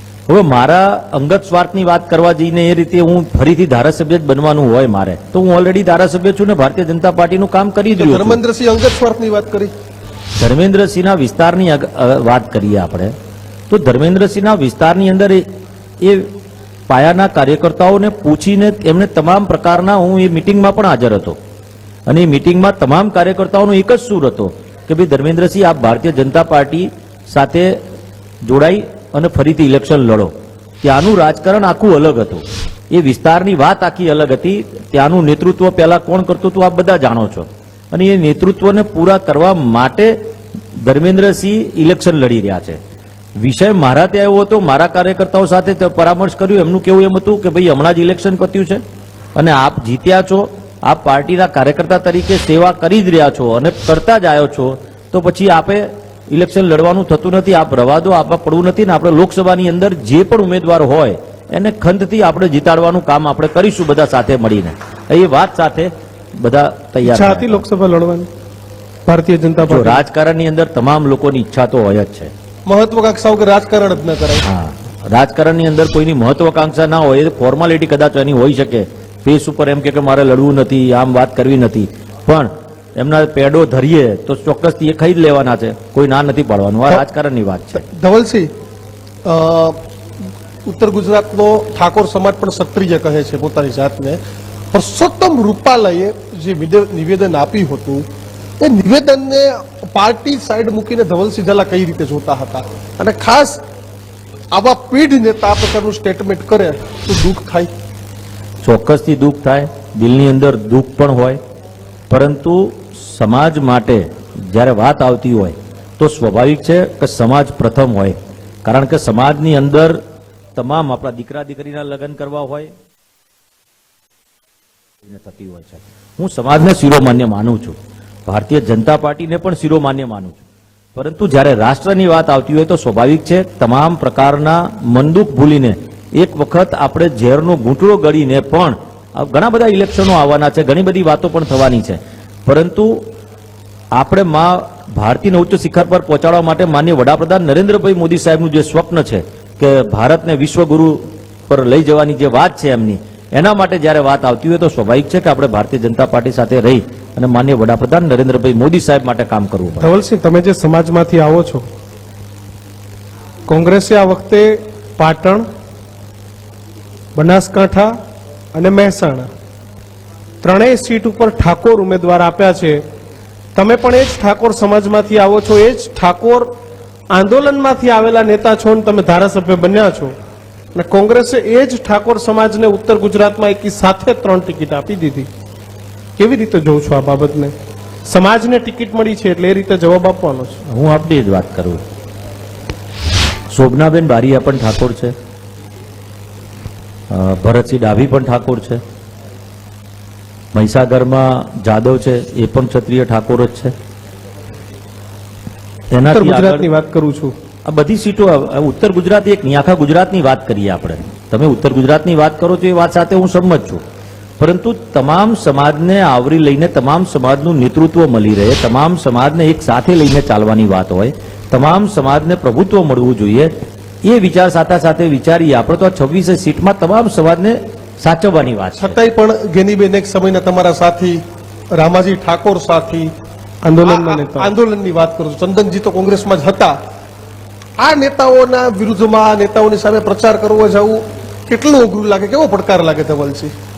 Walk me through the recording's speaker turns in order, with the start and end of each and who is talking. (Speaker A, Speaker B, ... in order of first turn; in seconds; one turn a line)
Speaker A: 0.3-8.4
Speaker B: 8.0-9.7
Speaker A: 10.4-13.1
Speaker A: 13.7-15.4
Speaker A: 16.0-16.3
Speaker A: 16.9-21.4
Speaker A: 22.1-27.8
Speaker A: 28.4-40.2
Speaker A: 40.8-42.8
Speaker A: 43.4-48.8
Speaker A: 49.3-67.6
Speaker C: 67.0-68.3
Speaker C: 69.1-70.0
Speaker A: 69.7-72.3
Speaker B: 72.7-74.4
Speaker A: 74.4-87.8
Speaker B: 87.8-88.5
Speaker B: 89.2-89.8
Speaker B: 90.6-94.2
Speaker B: 94.7-98.0
Speaker B: 98.6-103.6
Speaker B: 104.5-107.7
Speaker A: 108.6-111.4
Speaker A: 112.1-120.0
Speaker A: 120.5-122.7
Speaker A: 125.0-130.4
Speaker A: 130.9-143.1
Speaker A: 143.9-159.9
Speaker C: 159.8-161.6
Speaker C: 163.5-165.5
Speaker C: 167.1-167.9
Speaker C: 168.5-169.3
Speaker C: 170.4-172.8
Speaker C: 173.6-176.5
Speaker C: 177.1-180.1
Speaker C: 180.7-185.3
Speaker C: 186.2-187.5
Speaker C: 188.1-190.6
Speaker A: 190.7-191.8
Speaker A: 193.5-195.1
Speaker A: 197.1-198.8
Speaker A: 200.5-203.7
Speaker A: 205.9-206.7
Speaker C: 206.0-207.3
Speaker A: 207.7-213.8
Speaker A: 214.4-223.5
Speaker A: 224.0-228.9
Speaker B: 228.8-231.2
Speaker B: 231.7-233.1
Speaker C: 233.6-234.5
Speaker B: 233.8-236.8
Speaker B: 237.8-243.5